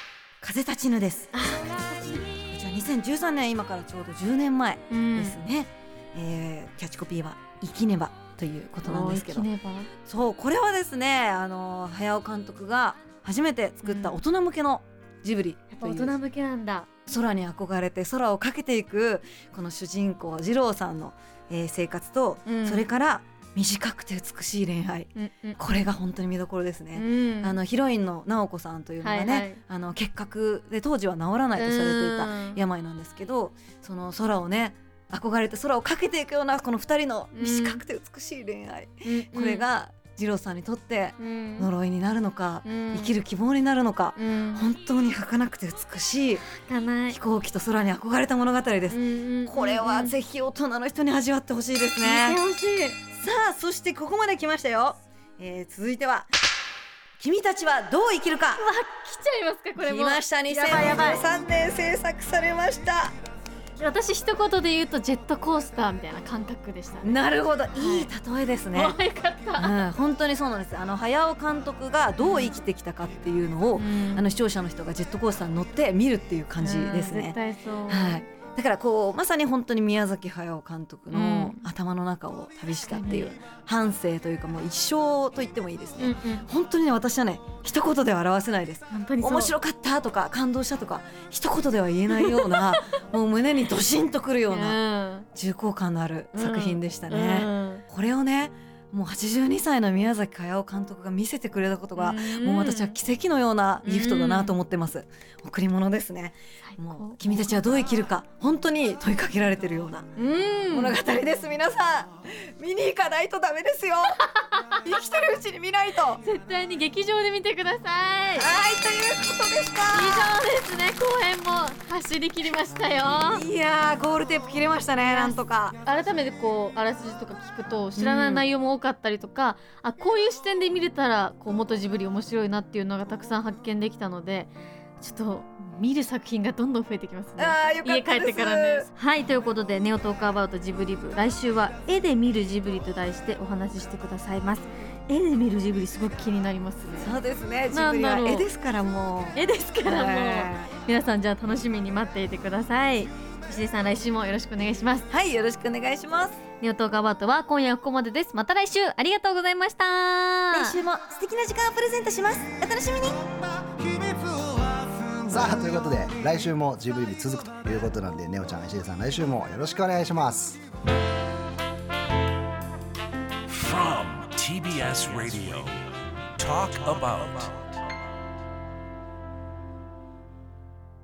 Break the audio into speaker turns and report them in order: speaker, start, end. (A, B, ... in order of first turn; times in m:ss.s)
0:00.4-0:01.3 A
0:01.3-0:02.3 B
0:02.5-0:09.5 A
0:04.9-0:05.4 B
0:08.8-0:09.9 B
0:10.1-0:16.2 A
0:13.8-0:14.2 B
0:15.7-0:16.9 B
0:17.1-0:46.5 A
0:22.4-0:22.9 B
0:25.2-0:25.8 B
0:27.0-0:27.6 B
0:29.0-0:29.6 B
0:31.6-0:32.6 B
0:37.3-0:37.8 B
0:39.0-0:39.7 B
0:41.2-0:41.7 B
0:42.6-0:43.2 B
0:44.2-0:44.7 B
0:46.5-0:47.2 B
0:47.1-0:52.4 A
0:48.9-0:50.2 B
0:52.0-0:53.0 B
0:53.1-0:56.3 A
0:57.2-0:58.6 A
0:58.6-1:01.3 B
0:59.8-1:03.2 A
1:03.8-1:07.2 B
1:07.0-1:09.0 A
1:07.8-1:08.1 B
1:08.7-1:09.8 B
1:09.6-1:17.4 A
1:12.2-1:12.6 B
1:13.8-1:14.3 B
1:16.6-1:18.2 B
1:17.9-1:34.8 A
1:21.1-1:21.7 B
1:22.9-1:23.4 B
1:26.0-1:26.5 B
1:28.9-1:29.5 B
1:32.1-1:32.9 B
1:34.5-1:35.3 B
1:35.3-1:50.1 A
1:36.3-1:37.8 B
1:42.0-1:43.0 B
1:43.8-1:44.6 B
1:46.6-1:47.6 B
1:50.2-1:51.0 B
1:50.7-1:54.2 A
1:54.2-1:54.6 B
1:54.8-1:56.2 A
1:56.2-1:58.5 B
1:58.4-2:00.3 A
1:59.9-2:03.4 B
2:03.1-2:05.8 A
2:05.0-2:27.2 B
2:08.0-2:08.4 A
2:17.4-2:18.9 A
2:27.0-2:30.7 A
2:27.7-2:28.5 B
2:29.3-2:35.1 B
2:35.1-2:36.4 A
2:36.5-2:40.8 B
2:40.5-2:43.2 A
2:43.8-2:44.5 C
2:45.2-2:50.6 C
2:53.5-2:57.6 D